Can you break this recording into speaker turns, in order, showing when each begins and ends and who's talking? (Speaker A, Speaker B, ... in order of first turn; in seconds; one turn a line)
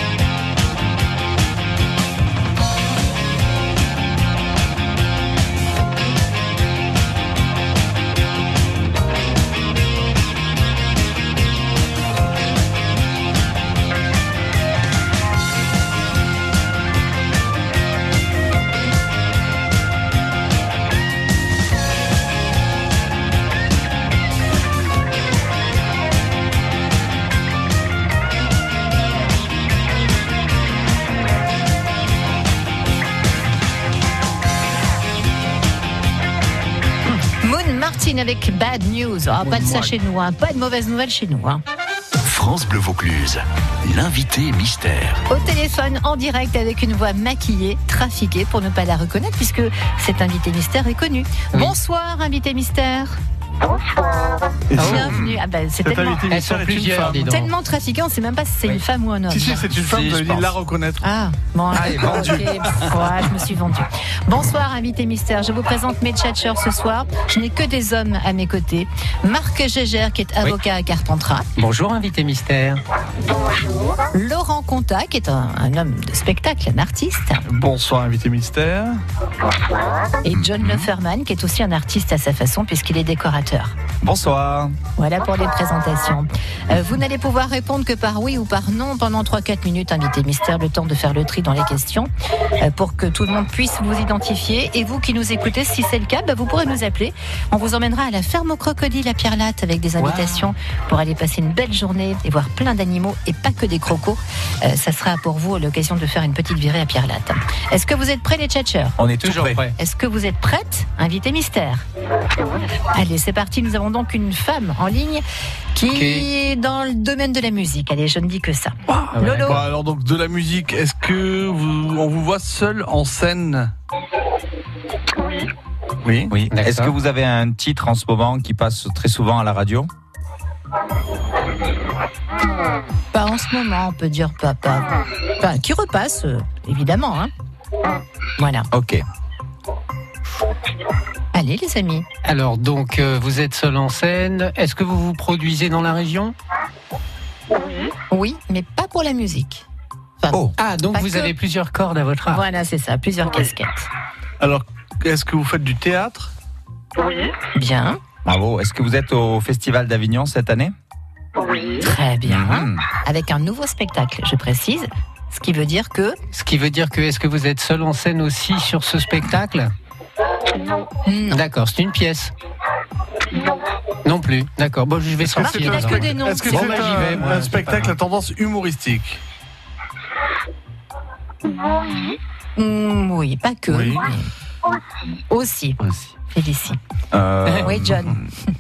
Speaker A: 37.4-41.6
Speaker B: 39.5-39.9
Speaker C: 42.2-45.2
Speaker A: 45.3-53.2
Speaker D: 54.7-55.1
Speaker A: 54.8-56.2
Speaker B: 54.8-55.1
Speaker E: 55.1-55.4
Speaker D: 55.8-57.3
Speaker B: 56.3-57.5
Speaker A: 57.2-59.7
Speaker D: 59.3-61.0
Speaker E: 59.8-60.5
Speaker A: 61.0-71.5
Speaker E: 61.7-62.5
Speaker D: 61.9-62.5
Speaker B: 71.6-72.8
Speaker A: 74.1-77.4
Speaker D: 77.5-79.0
Speaker A: 80.2-83.8
Speaker E: 80.3-80.9
Speaker E: 84.0-84.8
Speaker A: 85.0-109.0
Speaker B: 100.0-100.5
Speaker E: 109.0-109.6
Speaker B: 109.2-109.8
Speaker A: 109.8-111.8
Speaker A: 112.9-119.6
Speaker B: 115.9-116.3
Speaker D: 119.0-123.7
Speaker B: 119.1-119.6
Speaker D: 126.1-126.3
Speaker E: 126.3-129.9
Speaker B: 126.5-126.9
Speaker A: 133.1-137.3
Speaker A: 138.4-138.7
Speaker E: 138.7-139.0
Speaker A: 141.3-142.1
Speaker B: 142.2-146.3
Speaker A: 148.1-149.7
Speaker A: 150.2-151.3
Speaker E: 150.3-150.6
Speaker B: 150.6-152.4
Speaker A: 152.3-153.9
Speaker D: 154.4-156.3
Speaker A: 157.5-158.0
Speaker E: 158.2-160.7
Speaker A: 161.8-166.2
Speaker E: 162.3-162.8
Speaker B: 166.3-169.7
Speaker A: 171.1-171.4
Speaker B: 171.3-172.3
Speaker B: 174.0-178.0
Speaker D: 175.3-179.2
Speaker A: 175.3-177.2
Speaker A: 182.6-184.3
Speaker D: 183.7-184.1
Speaker A: 185.3-185.8
Speaker A: 186.3-186.8
Speaker E: 187.1-188.3
Speaker A: 187.6-188.2